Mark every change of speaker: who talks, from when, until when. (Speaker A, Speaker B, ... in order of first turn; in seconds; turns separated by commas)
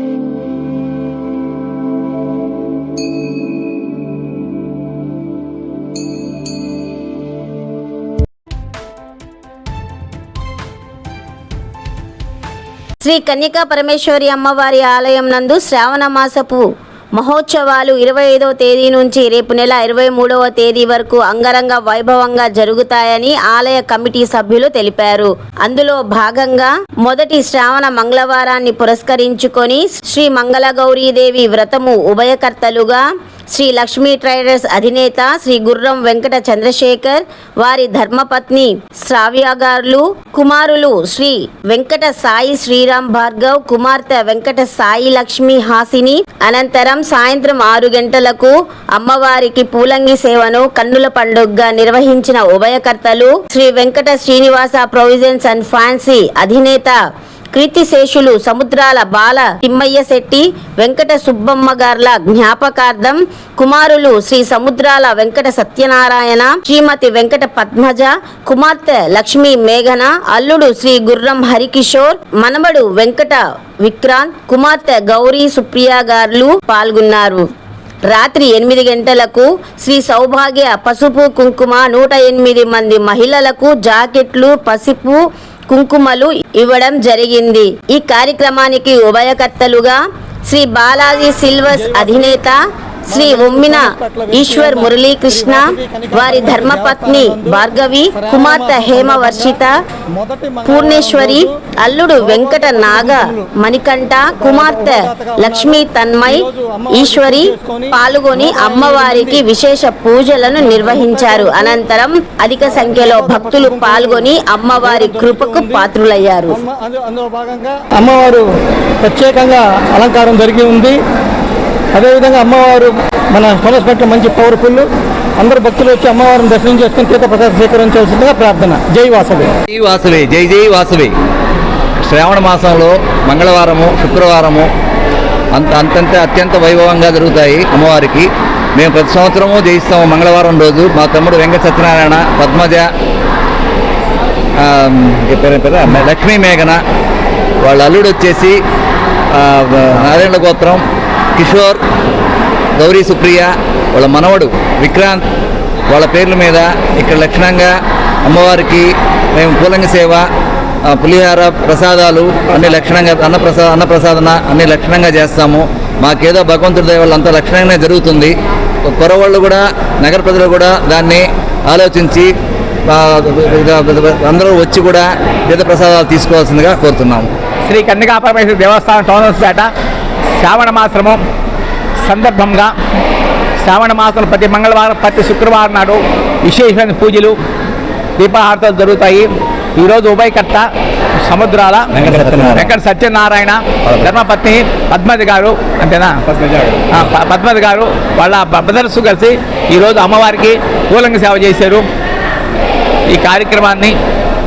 Speaker A: 13.0-57.0, Speaker A: 57.5-77.4, Speaker A: 78.1-92.6, Speaker B: 91.7-92.4, Speaker B: 93.1-97.6, Speaker A: 93.1-99.7, Speaker B: 98.2-99.6, Speaker B: 100.2-101.5, Speaker A: 100.7-116.6, Speaker B: 102.2-103.5, Speaker B: 104.4-109.4, Speaker B: 110.6-111.8, Speaker B: 112.7-114.3, Speaker B: 114.8-115.9, Speaker B: 116.5-118.5, Speaker B: 119.0-121.0, Speaker B: 122.0-124.9, Speaker B: 125.4-129.5, Speaker C: 129.7-131.2, Speaker C: 132.0-134.7, Speaker C: 135.5-142.9, Speaker C: 144.6-146.8, Speaker C: 147.6-148.6, Speaker C: 149.3-151.8, Speaker C: 152.8-155.3, Speaker C: 155.9-160.3, Speaker C: 160.8-172.3, Speaker C: 172.9-177.3, Speaker D: 177.7-179.7, Speaker D: 180.4-181.2, Speaker D: 182.1-182.7, Speaker D: 183.6-187.4, Speaker D: 188.2-190.7, Speaker D: 191.3-196.2, Speaker C: 191.9-192.7, Speaker D: 196.9-201.8, Speaker D: 203.1-203.9